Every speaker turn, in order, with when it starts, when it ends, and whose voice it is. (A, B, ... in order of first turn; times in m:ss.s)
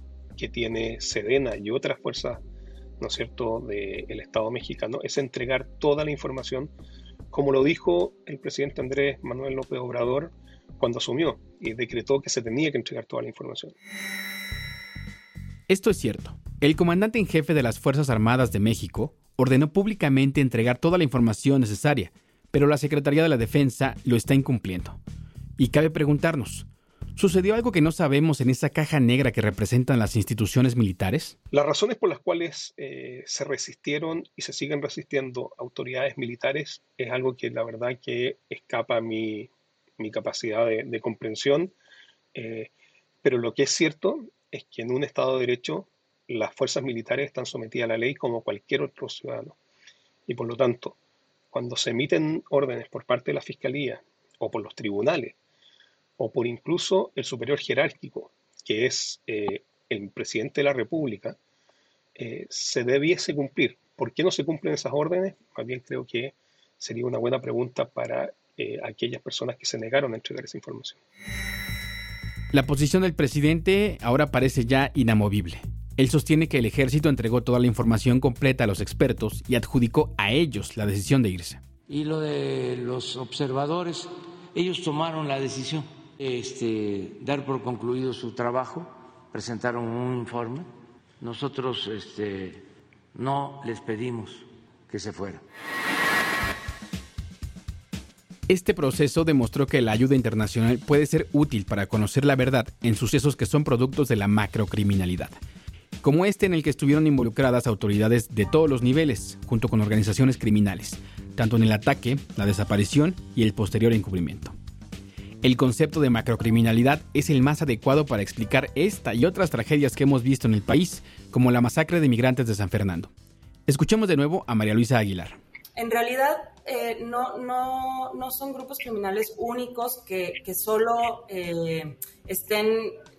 0:00.4-0:02.4 A
0:03.0-0:06.7 A
0:07.3-0:13.8 A
0:15.7-0:25.0 B
0:25.6-0:31.4 B
0:31.5-0:41.7 A
0:42.3-0:42.7 A
0:43.2-0:49.6 A
0:50.3-0:51.0 A
0:51.5-0:55.4 A
0:56.2-1:01.4 A
1:02.2-1:11.0 A
1:12.5-1:21.6 B
1:21.9-1:35.4 C
1:38.5-1:45.4 B
1:46.0-1:54.6 B
1:55.4-2:03.1 B
2:03.7-2:05.4 B
2:05.8-2:13.0 D